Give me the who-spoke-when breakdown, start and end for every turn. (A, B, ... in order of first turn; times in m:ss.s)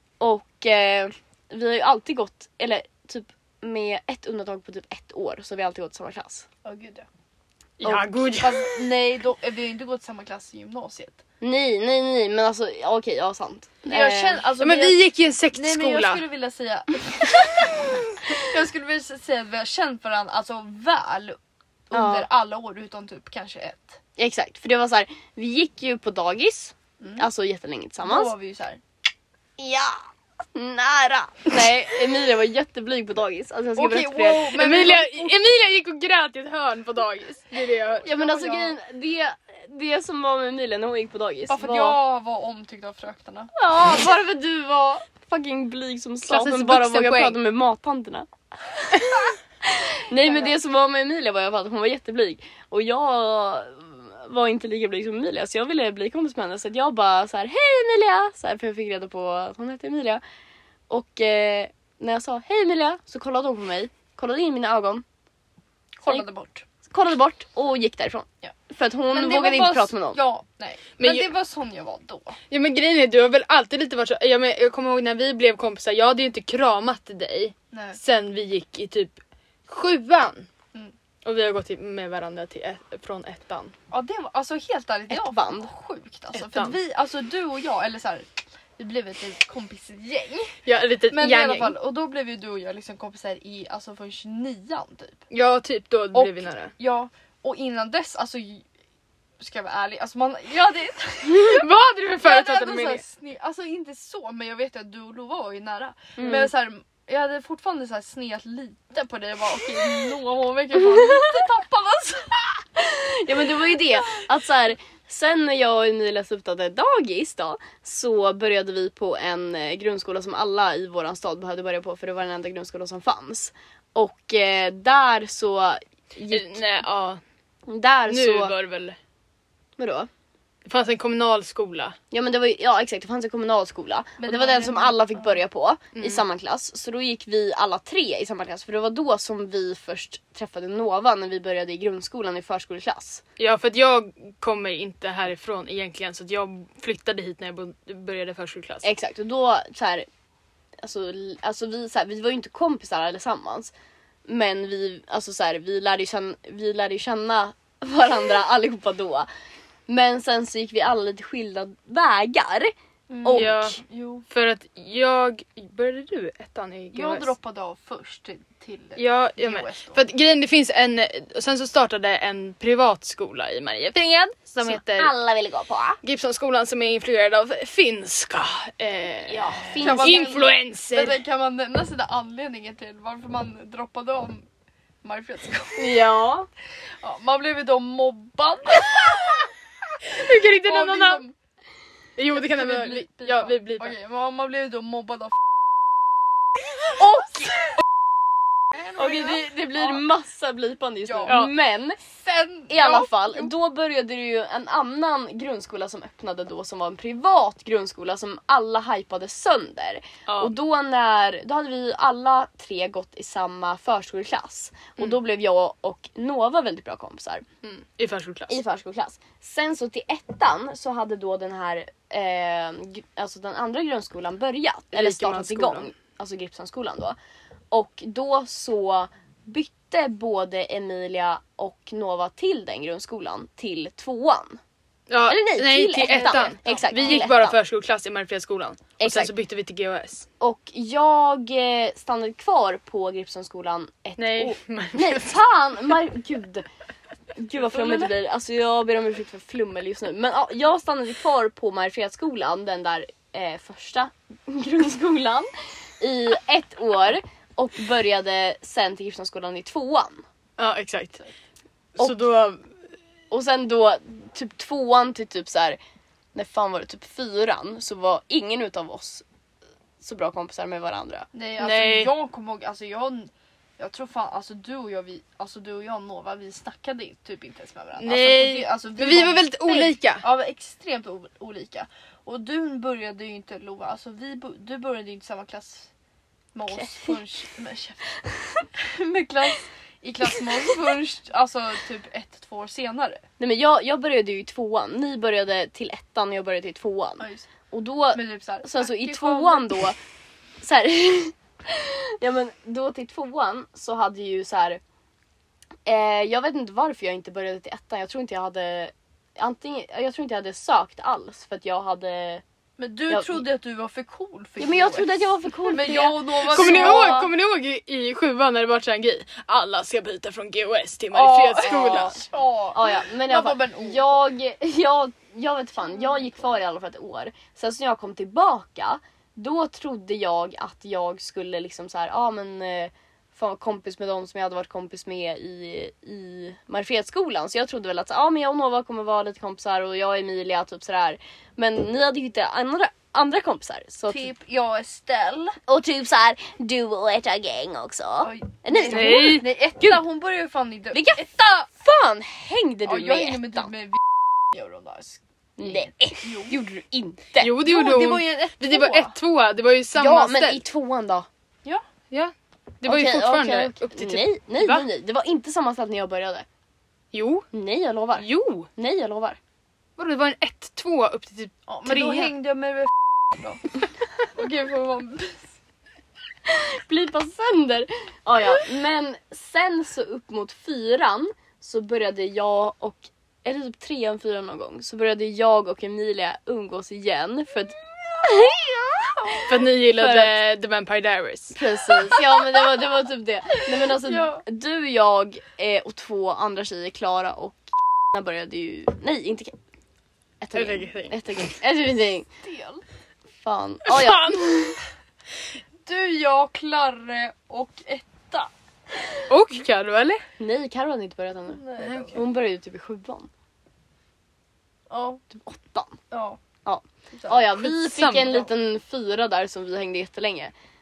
0:00.2-0:06.5 A
0:06.6-0:07.0 B
0:07.8-0:08.7 C
0:07.8-0:08.1 A
0:08.3-0:11.2 B
0:11.4-0:14.4 A
0:13.8-0:21.4 B
0:14.6-0:16.2 C
0:21.9-0:24.0 B
0:21.9-0:22.3 A
0:24.2-0:28.3 A
0:27.0-0:27.3 B
0:28.0-0:28.8 B
0:29.6-0:30.0 A
0:30.5-0:34.6 A
0:33.8-0:35.4 B
0:34.5-0:38.1 C
0:38.0-0:38.8 B
0:38.0-0:42.0 A
0:41.5-0:43.5 B
0:43.5-1:00.2 A
0:46.3-0:47.4 C
0:50.1-0:50.5 B
1:00.9-1:05.0 A
1:06.0-1:06.6 B
1:06.8-1:10.2 A
1:09.1-1:12.4 B
1:11.0-1:11.3 C
1:12.5-1:19.2 C
1:17.7-1:18.0 B
1:19.7-1:20.5 C
1:21.2-1:23.7 C
1:23.9-1:35.2 B
1:25.1-1:25.7 A
1:26.3-1:26.8 C
1:30.6-1:31.7 C
1:35.3-1:36.7 C
1:36.1-1:38.6 B
1:39.4-1:41.7 B
1:41.2-1:43.0 C
1:42.2-1:52.6 B
1:46.2-1:46.5 A
1:52.8-2:06.6 A
2:06.3-2:07.2 C
2:07.7-2:08.6 A
2:08.1-2:09.0 C
2:09.8-2:10.1 A
2:10.6-2:12.0 C
2:12.1-2:23.2 A
2:14.2-2:15.3 B
2:15.9-2:16.2 C
2:23.4-2:28.8 C
2:28.8-2:30.1 A
2:30.8-2:33.7 A
2:34.3-2:39.3 A
2:39.9-2:43.8 A
2:43.1-2:44.2 B
2:43.3-2:43.8 C
2:44.3-2:47.3 C
2:46.9-2:50.0 B
2:49.0-2:55.1 C
2:54.6-2:56.0 A
2:56.0-3:01.2 C
2:59.3-3:00.4 A
2:59.7-3:04.5 B
3:05.0-3:06.0 B
3:05.8-3:06.5 A
3:07.0-3:09.5 B
3:10.1-3:11.2 C
3:10.1-3:11.3 B
3:12.2-3:13.9 C
3:12.3-3:15.4 B
3:16.9-3:17.8 B
3:18.7-3:20.0 B
3:18.9-3:22.0 A
3:21.1-3:21.5 B
3:21.3-3:21.5 C
3:22.0-3:23.5 B
3:22.7-3:37.4 A
3:30.3-3:30.5 C
3:37.6-3:38.6 C
3:38.5-3:47.2 A
3:44.9-3:45.9 C
3:47.7-3:54.6 A
3:55.1-4:00.3 C
3:55.3-3:57.6 A
3:56.0-3:57.2 B
3:59.0-3:59.3 A
4:00.4-4:06.6 A
4:04.2-4:05.4 C
4:07.3-4:20.2 A
4:07.7-4:08.1 C
4:20.6-4:21.2 C
4:22.0-4:22.7 C
4:22.0-4:22.2 A
4:23.3-4:25.8 A
4:26.3-4:29.2 A
4:30.0-4:31.3 A
4:31.3-4:45.9 B
4:31.6-4:32.1 C
4:38.0-4:40.2 C
4:46.5-4:48.1 B
4:46.7-4:47.2 A
4:48.3-4:48.6 A
4:48.8-4:53.2 B
4:53.4-5:00.0 A
4:57.2-4:57.5 B
4:58.1-4:59.8 B
5:00.6-5:04.8 A
5:05.8-5:12.4 A
5:12.8-5:17.3 B
5:13.1-5:13.4 A
5:14.6-5:17.2 A
5:16.4-5:22.2 C
5:21.1-5:24.0 B
5:21.6-5:44.3 A
5:44.1-5:45.6 B
5:45.7-5:50.0 A
5:48.2-5:51.7 B
5:48.9-5:49.5 C
5:50.9-5:53.7 A
5:52.8-5:55.2 B
5:55.6-5:57.6 A
5:55.7-5:56.6 B
5:57.4-6:00.6 C
5:57.6-5:59.1 B
5:59.9-6:01.3 A
6:02.1-6:04.9 C
6:02.8-6:06.4 A
6:07.1-6:07.5 C
6:07.5-6:09.4 A
6:08.2-6:08.7 C
6:10.0-6:12.3 C
6:11.7-6:13.6 B
6:14.2-6:15.5 B
6:16.5-6:30.4 A
6:29.2-6:29.5 B
6:29.5-6:31.6 C
6:31.5-6:39.5 A
6:33.6-6:34.4 B
6:40.4-6:42.3 A
6:40.5-6:41.2 C
6:42.4-6:42.8 B
6:43.4-6:44.8 A
6:43.8-6:44.6 C
6:45.8-6:49.2 B
6:49.3-6:50.2 C
6:50.4-6:53.3 A
6:51.5-6:52.2 B
6:51.8-6:52.1 C
6:54.9-6:55.2 B
6:55.3-6:56.0 A
6:56.1-6:56.4 B
6:56.6-7:00.5 A
6:57.1-6:57.4 B
6:57.5-6:58.5 C